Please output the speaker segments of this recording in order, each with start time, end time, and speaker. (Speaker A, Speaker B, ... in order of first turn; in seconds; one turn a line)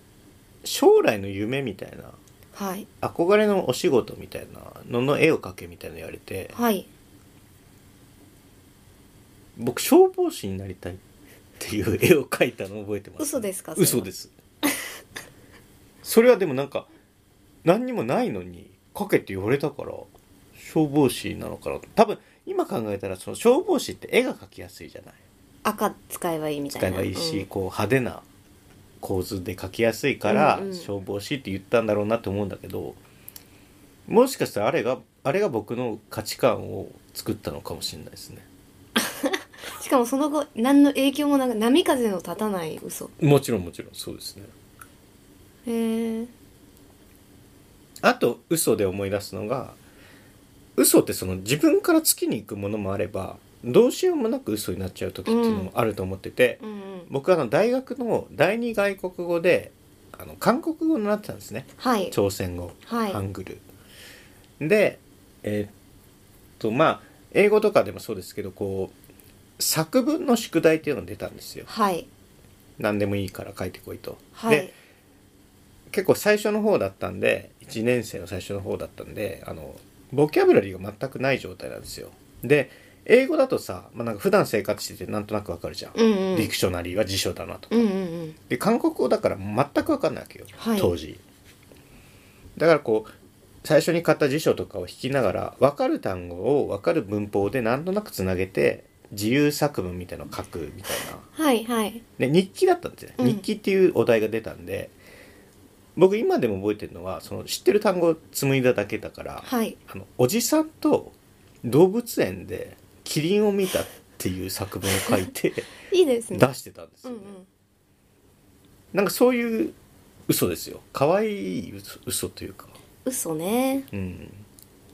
Speaker A: 0.6-2.2
Speaker B: 2.5-2.9
Speaker A: 3.0-6.5
Speaker B: 6.5-6.9
Speaker A: 9.6-11.0
Speaker A: 11.6-14.3
Speaker B: 13.2-14.1
Speaker A: 16.0-16.9
Speaker A: 17.6-25.2
Speaker B: 25.6-27.5
Speaker A: 26.7-28.2
Speaker A: 29.0-33.0
Speaker B: 30.3-30.9
Speaker A: 34.1-38.5
Speaker B: 39.0-43.1
Speaker A: 43.2-44.5
Speaker B: 45.7-46.3
Speaker A: 48.0-49.8
Speaker A: 50.8-63.6
Speaker B: 55.3-55.7
Speaker B: 56.6-57.1
Speaker B: 61.8-62.1
Speaker B: 62.9-63.2
Speaker A: 64.6-65.7
Speaker A: 66.6-68.9
Speaker A: 69.6-71.7
Speaker B: 71.7-72.1
Speaker A: 72.8-74.7
Speaker B: 74.3-74.7
Speaker A: 75.9-87.9
Speaker B: 86.0-86.5
Speaker B: 87.7-88.4
Speaker A: 88.5-91.2
Speaker B: 90.6-91.0
Speaker A: 92.6-93.1
Speaker A: 93.6-101.3
Speaker B: 101.3-102.0
Speaker A: 102.2-104.9
Speaker B: 103.2-103.4
Speaker A: 106.0-115.7
Speaker B: 109.4-109.8
Speaker B: 115.9-116.5
Speaker A: 116.3-117.4
Speaker B: 117.0-117.5
Speaker A: 118.9-119.8
Speaker A: 120.3-122.8
Speaker B: 123.0-123.9
Speaker A: 123.9-124.5